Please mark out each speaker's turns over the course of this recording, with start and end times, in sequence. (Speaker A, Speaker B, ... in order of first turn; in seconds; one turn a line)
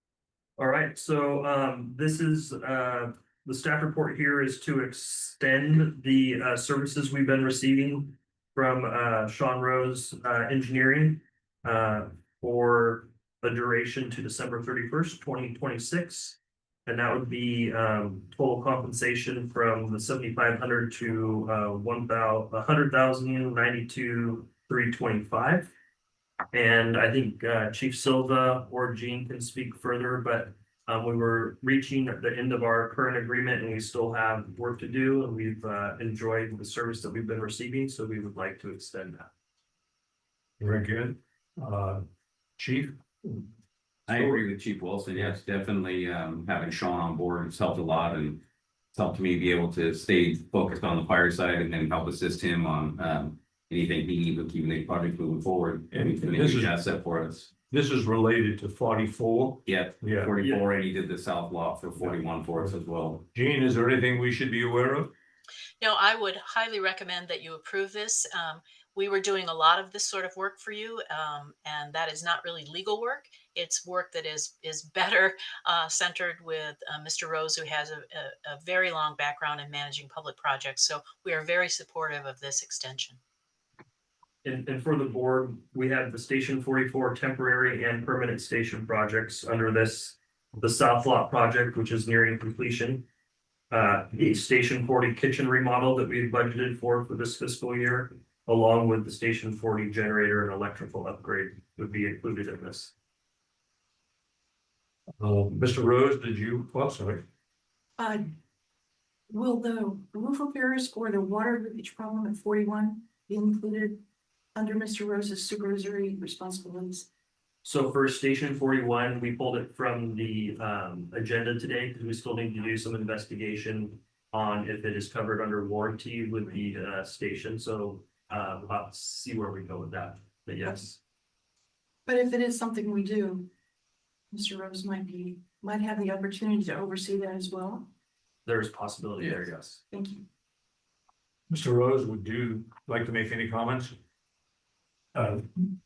Speaker A: 0.6-25.7
Speaker A: 26.5-39.3
Speaker B: 40.6-42.0
Speaker B: 42.6-43.5
Speaker C: 44.1-48.4
Speaker B: 44.1-44.5
Speaker C: 48.9-57.5
Speaker B: 55.9-56.8
Speaker B: 57.7-60.3
Speaker C: 59.6-63.2
Speaker A: 60.4-60.6
Speaker B: 62.0-62.7
Speaker B: 63.3-65.1
Speaker D: 65.8-83.2
Speaker A: 84.4-93.0
Speaker A: 93.7-102.9
Speaker B: 105.2-107.2
Speaker E: 108.0-108.3
Speaker E: 109.3-114.0
Speaker E: 114.5-117.1
Speaker A: 117.6-131.0
Speaker E: 132.1-133.5
Speaker E: 134.3-137.9
Speaker A: 138.4-139.8
Speaker E: 139.9-140.2
Speaker B: 141.5-143.9
Speaker B: 145.1-145.7